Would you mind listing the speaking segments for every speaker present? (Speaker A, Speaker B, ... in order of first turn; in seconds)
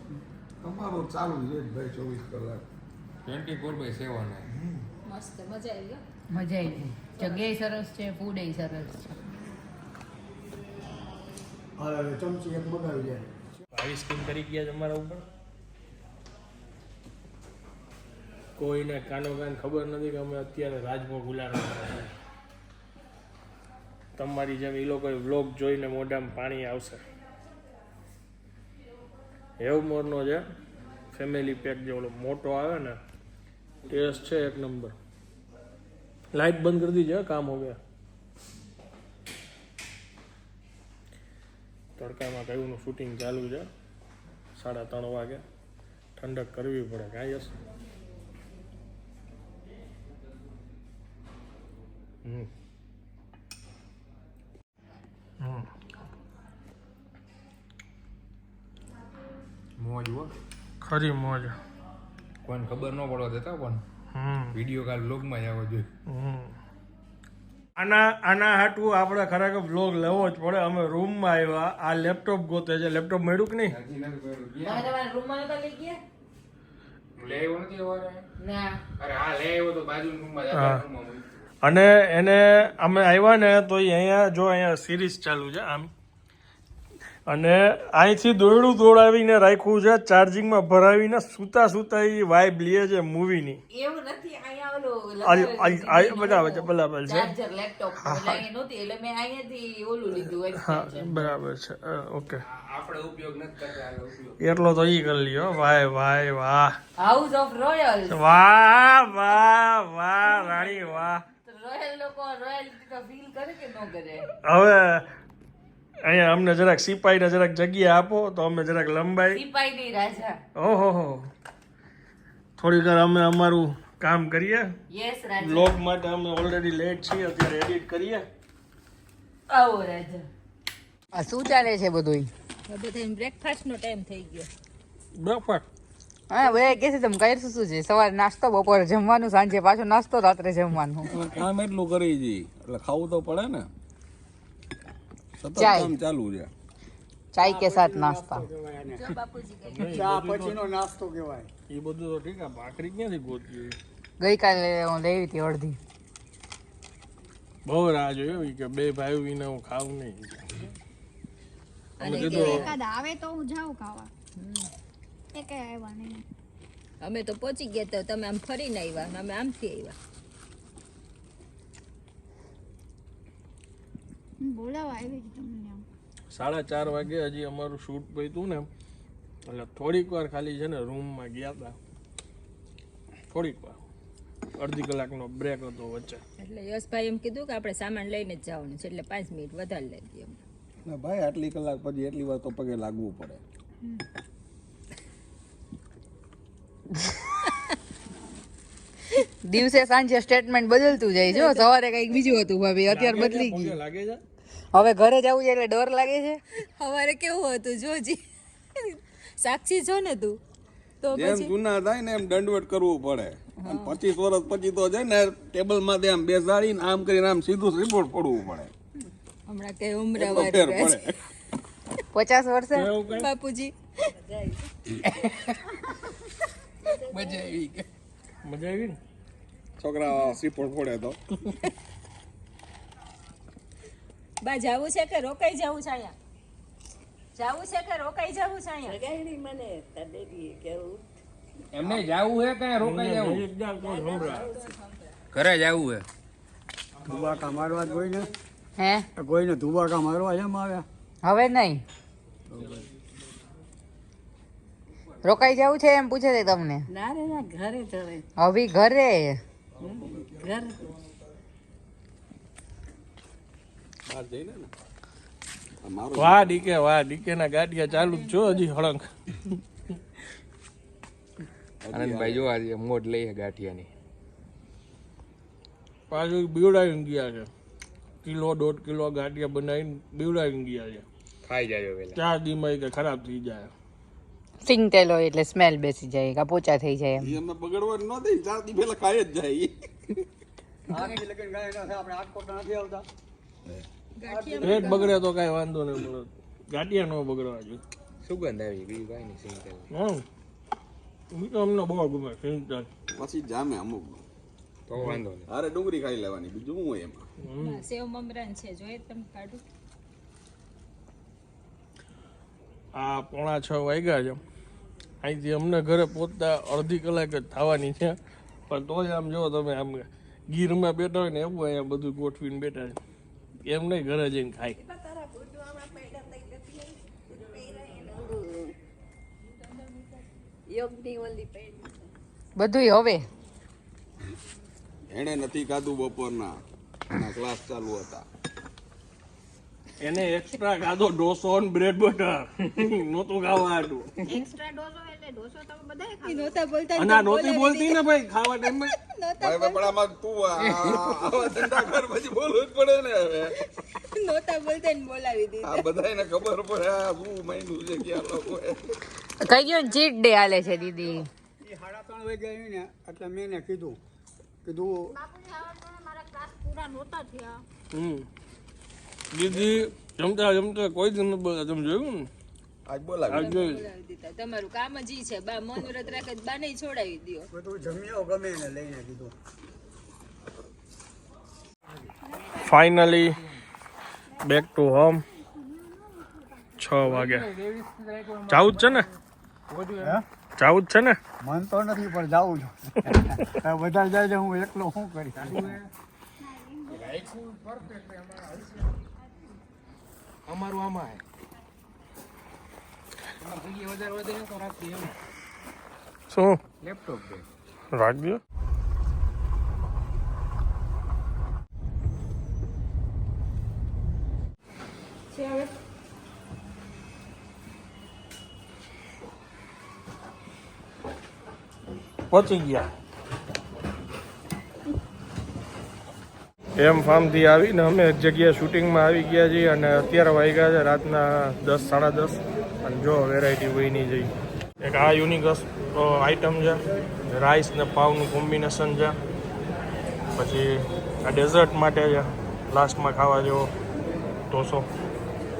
Speaker A: 0.6-2.6, 141.1-143.7, 145.4-146.5, 190.8-193.4, 211.1-218.7, 220.2-221.2, 229.8-231.2, 259.8-260.6, 264.1-264.7, 265.8-266.6, 271.8-272.5, 287.2-289.7, 303.2-304.2, 305.5-307.2, 335.1-336.6, 337.1-338.2, 349.4-353.5, 355.6-358.9, 372.9-373.6
Speaker B: 3.2-4.5, 59.8-60.3, 62.4-63.8, 64.5-65.9, 73.7-74.9, 77.2-78.3, 79.0-81.4, 102.5-104.4, 225.0-225.6, 226.9-227.8, 241.7-243.4, 245.3-246.0, 271.9-273.9, 281.4-282.2, 298.2-299.9, 304.9-305.5, 387.0-389.0, 389.7-390.2, 395.4-395.8, 396.9-398.4, 400.5-401.2, 403.4-405.1, 406.8-407.5
Speaker C: 5.1-6.0, 132.7-134.5, 148.9-150.1, 162.0-162.8, 164.4-164.7, 167.0-169.9, 186.4-190.4, 201.3-201.7, 206.8-208.2, 208.8-210.4, 211.0-211.5, 213.6-214.0, 219.5-221.1, 223.1-223.7, 234.4-236.1, 237.3-239.0, 243.8-245.1, 267.9-268.6, 290.9-291.2, 294.2-295.1, 307.6-309.6, 346.1-350.0, 353.8-355.9, 373.3-377.5, 415.3-415.7
Speaker D: 6.3-9.1, 74.6-76.0, 78.4-78.8, 93.7-101.3, 107.0-108.2, 110.2-114.3, 119.3-120.4, 124.9-125.8, 129.5-130.2, 131.1-132.3, 136.3-141.1, 145.5-145.9, 147.3-148.4, 154.2-155.8, 199.4-203.8, 204.7-206.4, 222.1-222.9, 248.8-249.1, 251.2-251.8, 255.2-256.9, 258.4-259.4, 284.6-287.4, 332.6-333.2, 359.4-361.3
Speaker E: 11.8-13.3, 147.4-149.1, 149.9-151.5, 247.1-248.3, 249.2-250.8, 290.9-293.0, 294.3-295.1, 361.6-364.0, 364.6-364.9, 377.5-379.3, 391.4-395.8
Speaker F: 13.7-15.2, 18.6-22.1, 24.1-27.0, 29.6-30.4, 31.1-33.0, 33.9-34.9, 36.3-37.8, 42.0-43.7, 44.5-45.4, 46.2-47.6, 55.4-55.7, 60.8-61.5, 64.1-64.5, 66.1-66.5, 67.8-73.8, 80.5-80.8, 81.6-85.9, 87.3-93.6, 95.2-97.3, 98.0-98.4, 100.6-102.4, 104.4-106.7, 108.1-111.2, 114.4-115.0, 116.0-119.4, 120.5-121.3, 122.6-124.7, 125.4-128.2, 135.2-135.6, 149.7-150.7, 151.7-153.8, 157.7-160.6, 162.0-162.8, 176.3-178.7, 179.5-181.8, 183.3-183.8, 184.6-186.2, 202.9-204.2, 222.7-223.3, 228.4-229.0, 242.8-244.5, 266.2-269.6, 276.1-277.5, 278.2-281.1, 282.1-283.7, 294.6-297.8, 299.9-300.2, 301.3-302.9, 307.4-307.8, 312.9-314.4, 315.2-318.2, 318.7-323.0, 323.6-324.8, 340.0-344.1, 347.0-348.9, 367.9-368.3, 369.3-372.3, 373.3-373.8, 382.4-383.4, 384.4-385.2, 386.8-387.5, 388.5-389.1, 390.6-391.2, 393.0-393.4, 406.3-406.6, 407.9-408.4, 422.3-422.9, 426.8-439.1, 440.4-443.7, 444.5-444.9
Speaker G: 162.1-164.1, 165.3-166.2, 174.4-175.8, 344.4-346.6, 365.2-367.6, 385.6-386.4, 396.4-397.1
Speaker H: 224.1-224.7, 238.8-241.2, 244.2-244.7, 256.9-258.2, 259.8-260.9, 324.8-328.7, 330.7-332.1